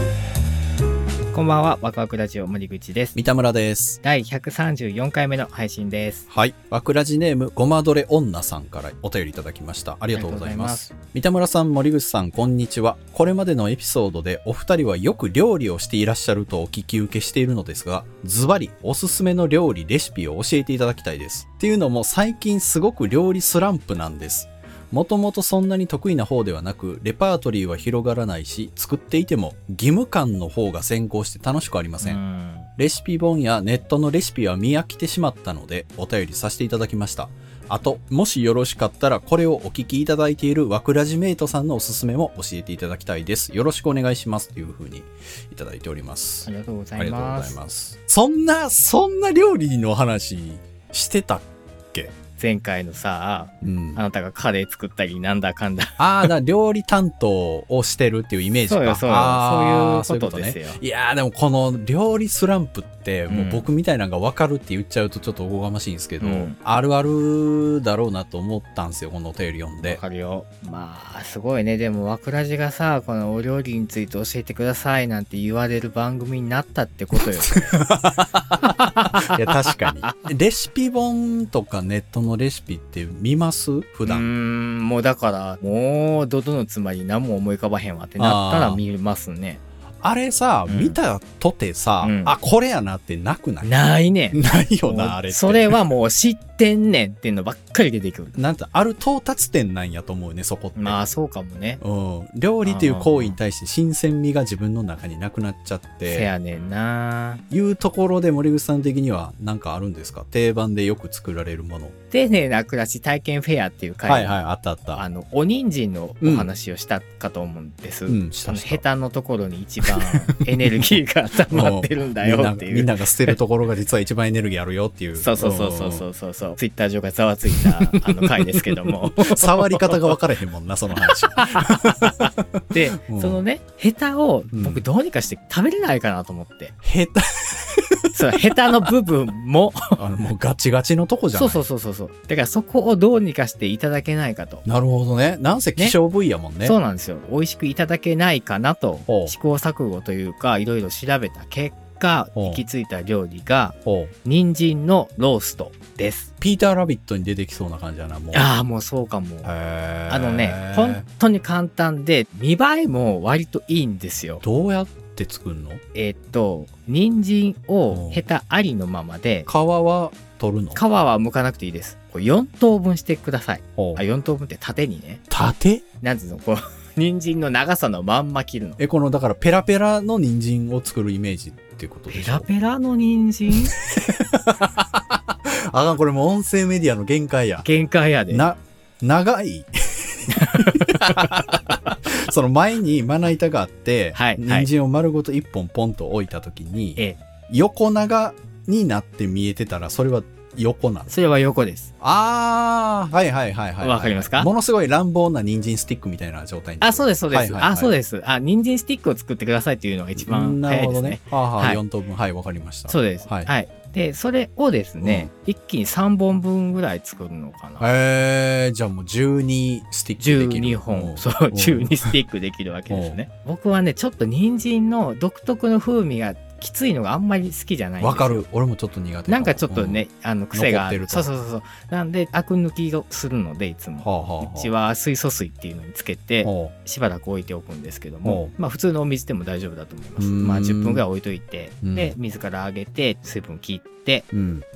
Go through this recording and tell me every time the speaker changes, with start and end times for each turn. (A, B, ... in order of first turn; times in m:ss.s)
0:01.3-0:03.2 A
0:03.1-0:04.0 B
0:04.0-0:06.2 A
0:06.3-0:32.2 B
0:10.2-0:10.9 A
0:32.0-0:32.7 A
0:32.8-0:52.1 B
0:46.4-0:47.6 A
0:52.4-0:56.3 A
0:53.6-0:54.0 B
0:56.0-1:10.0 B
0:58.7-1:00.8 A
1:03.3-1:03.7 A
1:06.2-1:06.5 A
1:09.8-1:17.8 A
1:17.4-1:24.3 B
1:18.6-1:20.1 A
1:24.0-1:29.6 A
1:28.2-1:28.8 B
1:30.0-1:33.7 B
1:30.7-1:31.0 A
1:32.0-1:32.4 A
1:33.6-1:38.3 A
1:34.3-1:35.8 B
1:38.3-1:41.0 B
1:40.8-1:41.8 A
1:41.8-1:46.3 B
1:42.6-1:43.4 A
1:46.1-1:47.4 A
1:47.5-1:51.9 B
1:52.1-1:54.4 A
1:54.0-1:55.0 B
1:54.9-2:03.4 A
1:56.2-1:56.5 B
1:58.1-1:58.8 B
1:59.8-2:00.9 B
2:01.5-2:06.0 B
2:05.2-2:10.1 A
2:07.6-2:13.4 B
2:11.0-2:16.8 A
2:14.5-2:14.8 B
2:16.8-2:18.2 B
2:18.1-2:20.0 A
2:20.0-2:21.6 B
2:21.3-2:24.6 A
2:24.6-2:26.8 B
2:26.6-2:36.3 A
2:29.1-2:29.3 B
2:32.4-2:32.6 B
2:33.8-2:34.1 B
2:36.4-2:38.5 B
2:38.3-2:39.5 A
2:39.4-2:41.0 B
2:40.1-2:44.4 A
2:44.4-2:45.8 B
2:45.9-2:49.5 A
2:47.9-2:48.2 B
2:49.4-2:50.8 B
2:50.7-2:55.2 A
2:55.3-2:55.8 B
2:56.0-2:58.8 A
2:58.8-3:02.5 B
3:02.1-3:03.8 A
3:03.7-3:07.7 B
3:07.6-3:08.5 A
3:08.3-3:21.1 B
3:10.4-3:11.2 A
3:14.1-3:14.7 A
3:21.1-3:21.9 A
3:22.0-3:27.9 B
3:23.8-3:24.5 A
3:26.8-3:31.8 A
3:30.2-3:33.5 B
3:32.9-3:37.9 A
3:35.0-3:35.3 B
3:37.8-3:42.1 B
3:40.2-3:48.4 A
3:42.9-3:43.2 B
3:48.0-3:51.3 B
3:49.3-4:04.3 A
3:54.0-3:54.7 B
3:56.4-3:56.7 B
3:58.2-3:58.5 B
4:00.2-4:01.0 B
4:01.8-4:02.1 B
4:04.3-4:04.6 B